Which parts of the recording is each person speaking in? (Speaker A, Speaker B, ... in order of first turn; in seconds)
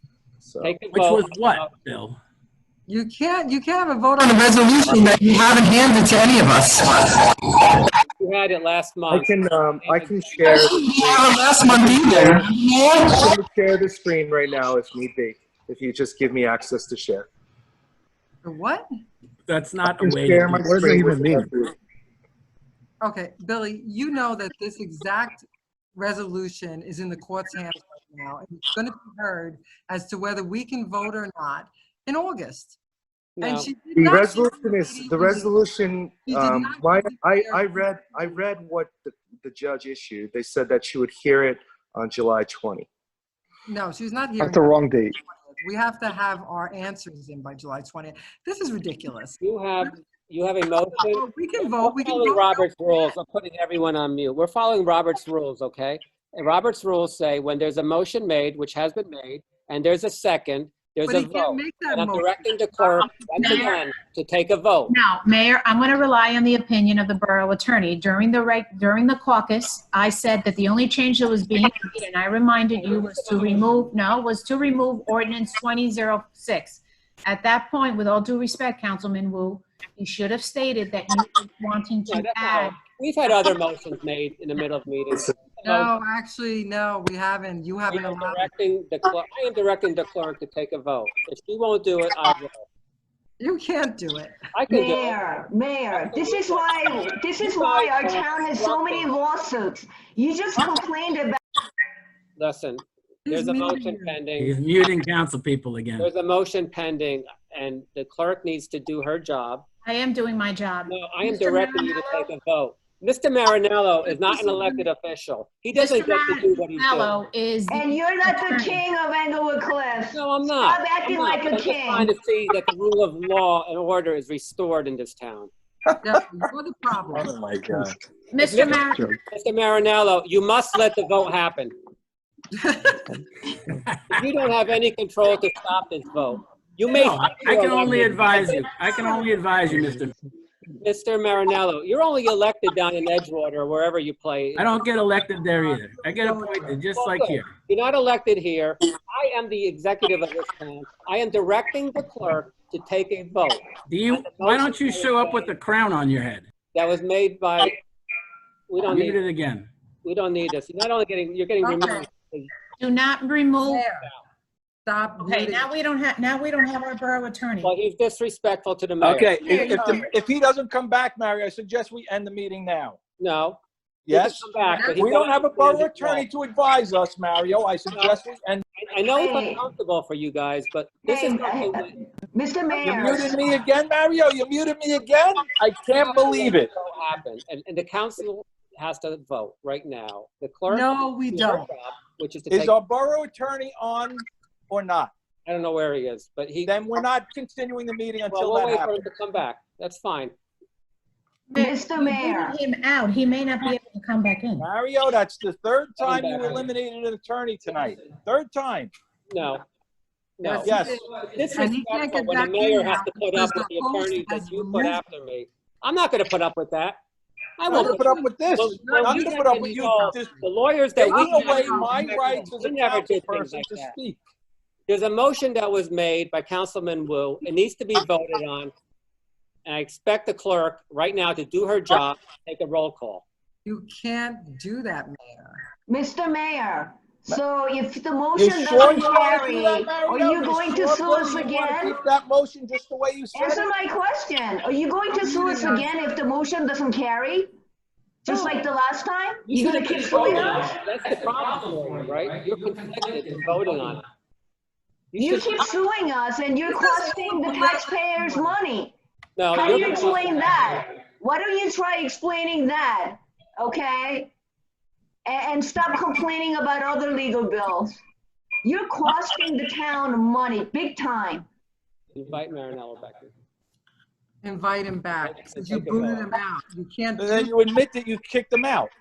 Speaker A: 0.4-0.7, 9.1-12.5, 13.0-17.3, 19.8-21.6, 34.0-42.9, 127.2-127.9
Speaker B: 0.6-1.7, 8.2-10.7, 33.4-33.7, 49.4-65.0, 72.8-73.9, 82.1-86.0, 87.9-92.7, 94.5-95.2, 95.9-99.1, 102.4-104.5, 106.0-109.7, 110.9-117.2, 120.1-125.5, 128.4-131.7, 134.1-138.7, 140.8-144.8, 146.9-155.5, 156.7-157.8, 158.7-159.2, 160.0-162.5, 167.6-169.8, 173.2-176.3, 177.9-178.2, 178.8-181.9, 185.9-192.7, 195.5-196.8, 198.3-200.3, 206.0-206.7, 209.3-209.6, 210.4-210.8, 211.3-217.0, 217.6-224.0, 224.9-228.7, 229.7-233.2, 249.5-254.0, 255.1-255.7, 259.4-260.9, 272.1-273.3, 275.2-276.4
Speaker C: 0.9-2.2, 19.5-20.7, 104.4-106.1, 136.9-140.1, 144.6-147.5, 153.9-156.4, 158.8-159.7, 249.8-254.0
Speaker D: 2.9-7.2, 10.5-12.6, 18.4-18.9, 23.0-32.8, 33.4-35.6, 36.3-38.0, 43.7-49.9, 50.9-52.7, 61.0-63.7, 85.6-88.5, 93.4-94.4, 103.3-104.2, 114.0-114.9, 126.0-127.3, 132.5-133.1, 146.2-146.8, 161.6-162.0, 163.7-164.1, 164.9-165.7, 174.7-175.1, 190.7-191.7, 210.4-215.0, 217.7-220.2, 221.0-222.5, 233.7-235.7, 245.1-245.9, 256.8-258.5, 274.4-277.6
Speaker E: 63.4-63.8, 64.9-82.8, 109.8-112.2, 115.8-118.9, 128.3-129.1, 162.8-163.9, 165.2-167.7, 169.4-170.1, 201.5-204.7
Speaker F: 94.7-101.4, 117.7-122.1, 179.2-179.6, 181.1-183.4, 201.6-202.6, 235.9-242.0, 243.3-247.5, 248.2-250.8, 255.2-258.9, 259.5-264.3, 265.2-268.0, 268.6-271.5
Speaker G: 169.0-173.0, 174.1-178.6, 182.8-186.7, 192.5-195.1, 196.7-199.1, 204.6-208.9, 210.7-211.0, 217.7-220.4, 221.0-224.2, 238.3-243.7, 277.2-278.9